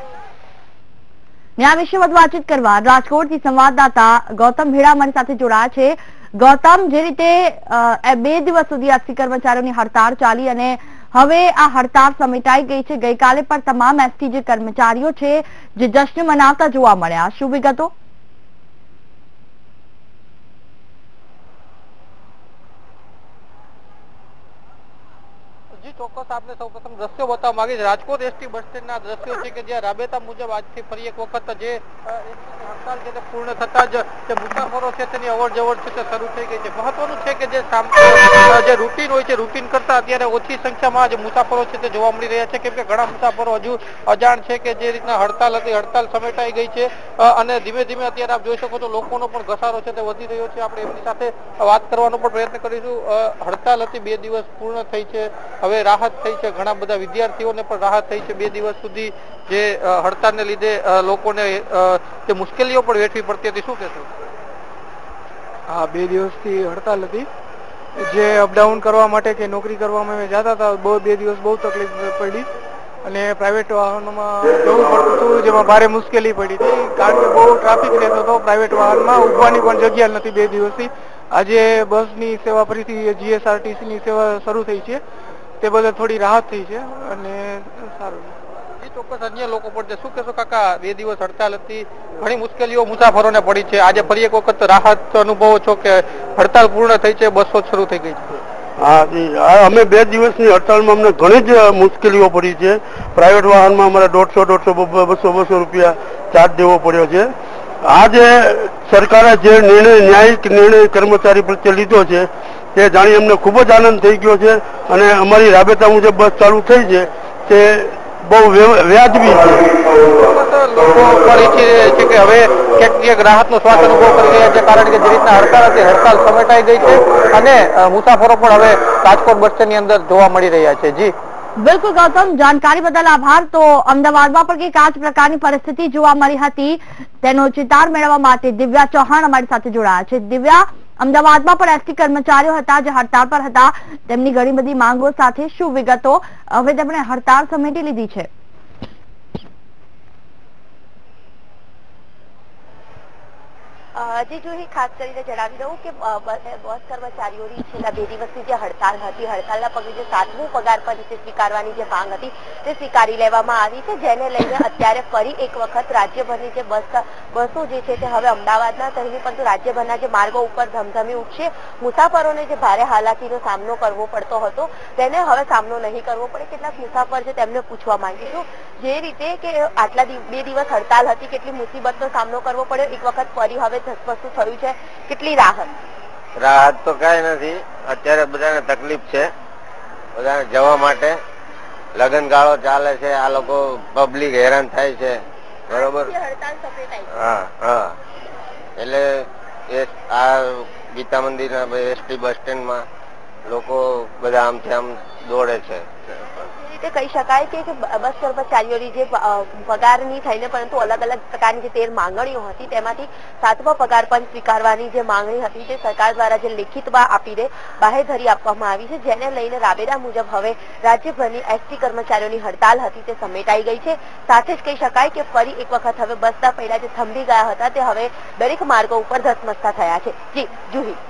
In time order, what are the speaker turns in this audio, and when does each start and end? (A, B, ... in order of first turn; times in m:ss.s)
0:01.6-0:17.9 A
0:25.8-1:04.1 B
1:05.7-1:07.3 C
1:08.0-1:12.5 C
1:13.0-1:25.0 C
1:25.6-1:28.4 C
1:28.8-1:38.3 B
1:38.8-1:47.3 D
1:47.8-1:59.7 D
2:00.2-2:11.1 B
2:11.6-2:28.3 A
2:34.0-3:05.7 E
3:06.4-3:09.3 F
3:10.2-3:11.2 F
3:12.0-3:16.1 F
3:15.7-3:17.1 E
3:17.1-3:18.0 F
3:18.8-3:22.9 F
3:23.5-3:26.4 F
3:26.6-3:51.0 E